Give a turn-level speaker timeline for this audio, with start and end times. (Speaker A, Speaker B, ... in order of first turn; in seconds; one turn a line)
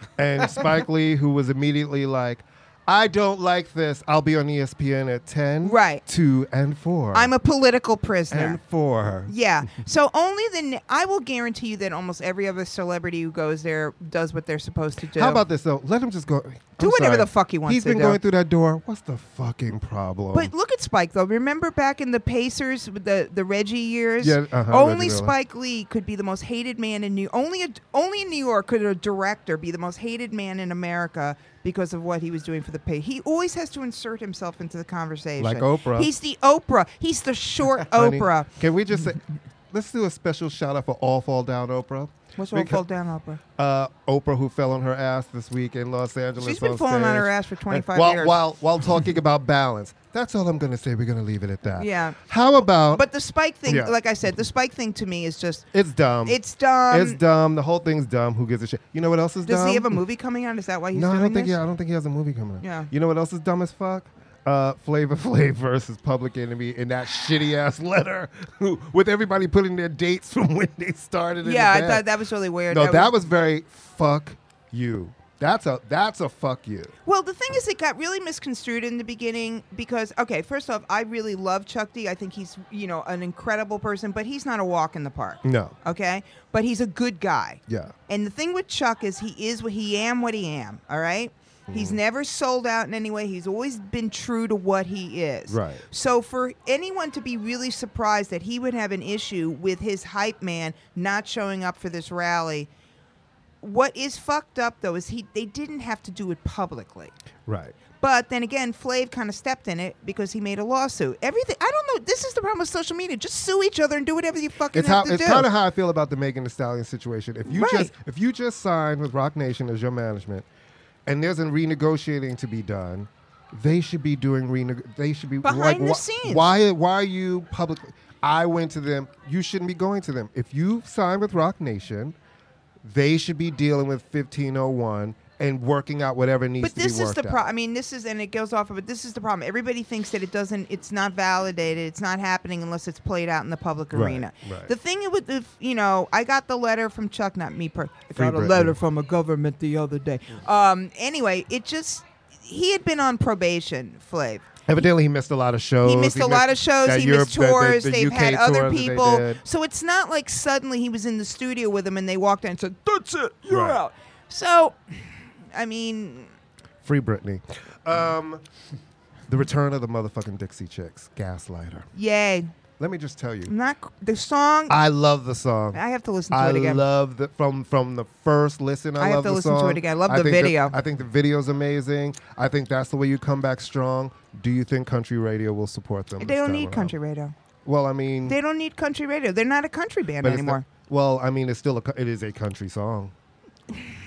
Speaker A: 0.2-7.3
Speaker B: 5.6-6.0
Speaker B: 7.1-8.6
Speaker A: 8.3-9.3
Speaker B: 9.3-15.4
Speaker A: 15.2-20.5
Speaker B: 16.8-18.2
Speaker B: 20.3-38.5
Speaker A: 24.2-25.3
Speaker A: 35.4-36.1
Speaker A: 37.8-42.8
Speaker B: 42.4-43.4
Speaker A: 43.6-53.1
Speaker B: 46.4-48.4
Speaker B: 51.8-52.2
Speaker B: 52.9-55.7
Speaker A: 53.7-53.9
Speaker A: 55.7-56.4
Speaker B: 56.3-57.2
Speaker A: 56.9-60.0
Speaker B: 59.5-61.6
Speaker A: 60.9-72.1
Speaker B: 62.6-62.9
Speaker B: 71.4-73.1
Speaker A: 72.7-76.9
Speaker B: 77.1-102.7
Speaker A: 85.4-85.8
Speaker A: 87.7-87.9
Speaker A: 91.7-92.0
Speaker A: 95.5-95.8
Speaker B: 103.6-107.1
Speaker A: 107.5-107.8
Speaker B: 108.0-115.5
Speaker A: 114.7-120.5
Speaker B: 117.5-117.9
Speaker A: 121.1-132.2
Speaker B: 125.4-126.5
Speaker A: 132.8-137.4
Speaker B: 136.6-154.5
Speaker A: 143.9-144.7
Speaker A: 148.1-148.8
Speaker A: 154.7-159.4
Speaker B: 155.8-166.3
Speaker A: 163.5-163.8
Speaker A: 166.8-168.4
Speaker A: 169.3-171.9
Speaker B: 171.9-172.5
Speaker A: 172.8-173.5
Speaker B: 173.5-174.8
Speaker A: 174.7-186.9
Speaker B: 175.7-176.8
Speaker B: 179.0-180.8
Speaker B: 186.2-187.3
Speaker A: 187.7-188.4
Speaker B: 188.3-190.7
Speaker A: 190.2-193.1